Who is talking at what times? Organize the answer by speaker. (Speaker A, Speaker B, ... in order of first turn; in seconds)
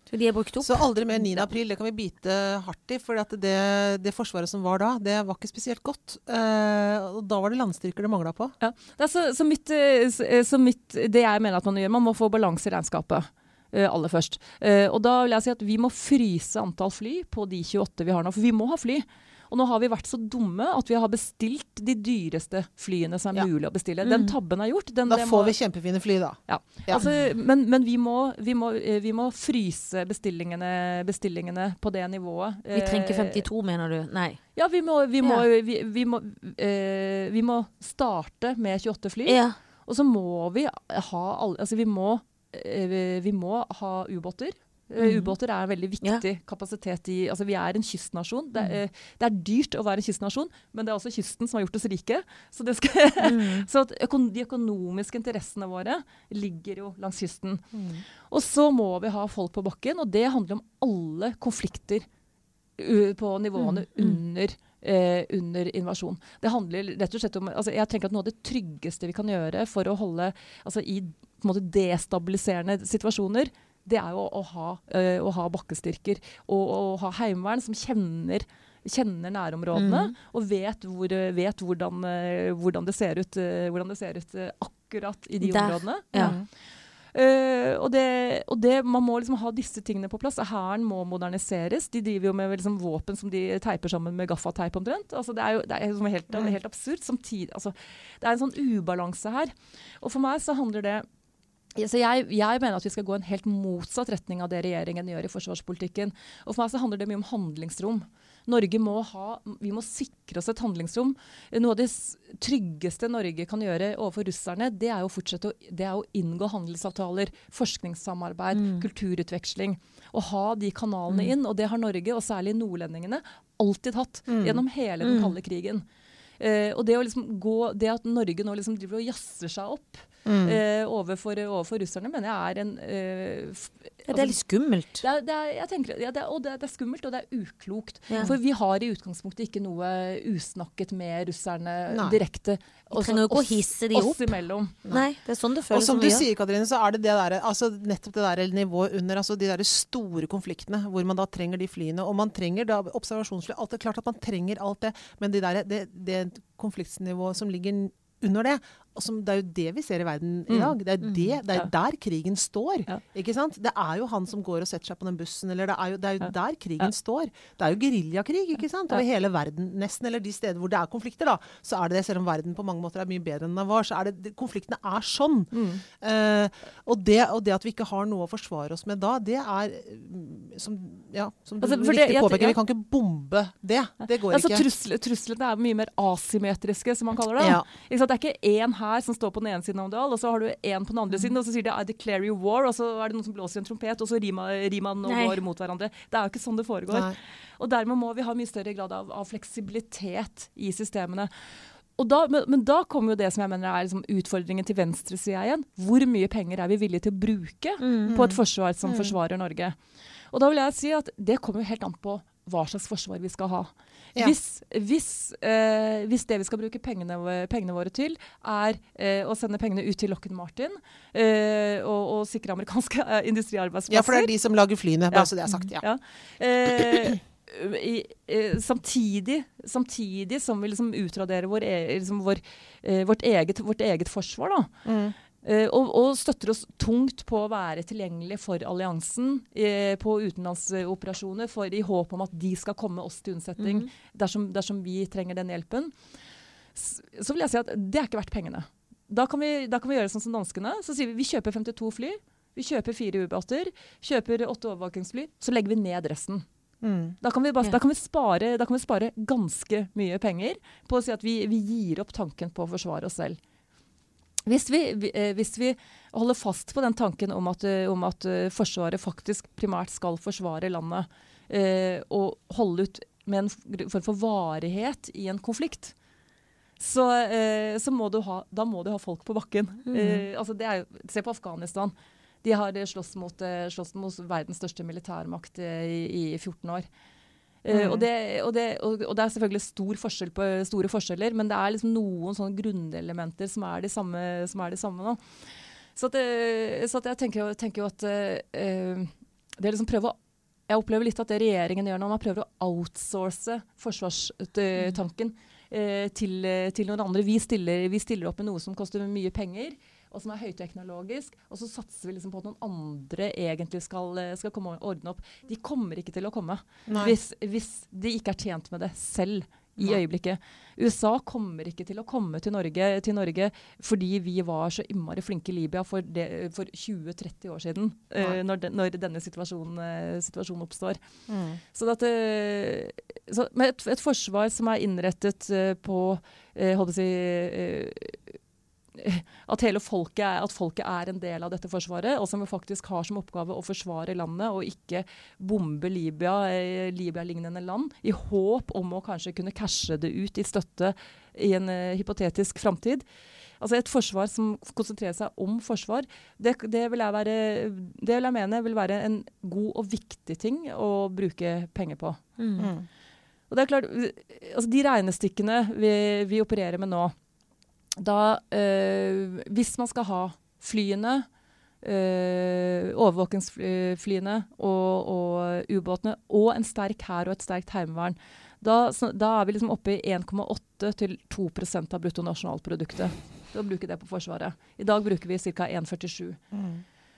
Speaker A: 0.1-1.4, 24.0-24.3, 32.7-34.4, 39.2-39.6, 45.0-45.3, 53.2-53.7, 63.6-64.2, 79.7-80.1, 85.4-86.4, 118.5-118.8, 125.0-125.3, 134.1-135.0, 142.9-144.3, 144.9-146.2, 161.0-161.4, 195.1-195.4, 207.8-208.1, 243.6-243.9, 279.9-280.2, 362.4-362.7
Speaker B: 0.6-8.5, 25.1-27.1, 57.7-58.0, 86.1-86.5, 124.3-124.6, 130.2-130.6, 141.9-142.2, 145.7-184.7, 196.9-197.1, 208.1-209.1, 223.9-225.8, 234.8-235.1, 256.8-257.2, 316.9-317.1, 331.3-331.6, 362.6-362.9, 386.5-386.8
Speaker C: 8.6-25.5, 26.5-33.4, 34.5-57.7, 58.3-62.0, 62.8-86.4, 87.1-101.0, 101.8-125.8, 126.4-134.4, 135.0-144.8, 160.5-160.7, 175.5-175.8, 181.6-182.6, 184.3-201.3, 202.0-209.8, 210.3-224.3, 225.1-234.7, 235.4-245.9, 246.7-256.4, 257.2-263.4, 264.4-275.9, 276.8-286.9, 287.6-295.2, 295.9-300.2, 300.7-331.0, 331.7-338.4, 338.9-353.0, 353.6-362.2, 363.5-367.1, 368.0-371.3, 371.8-386.4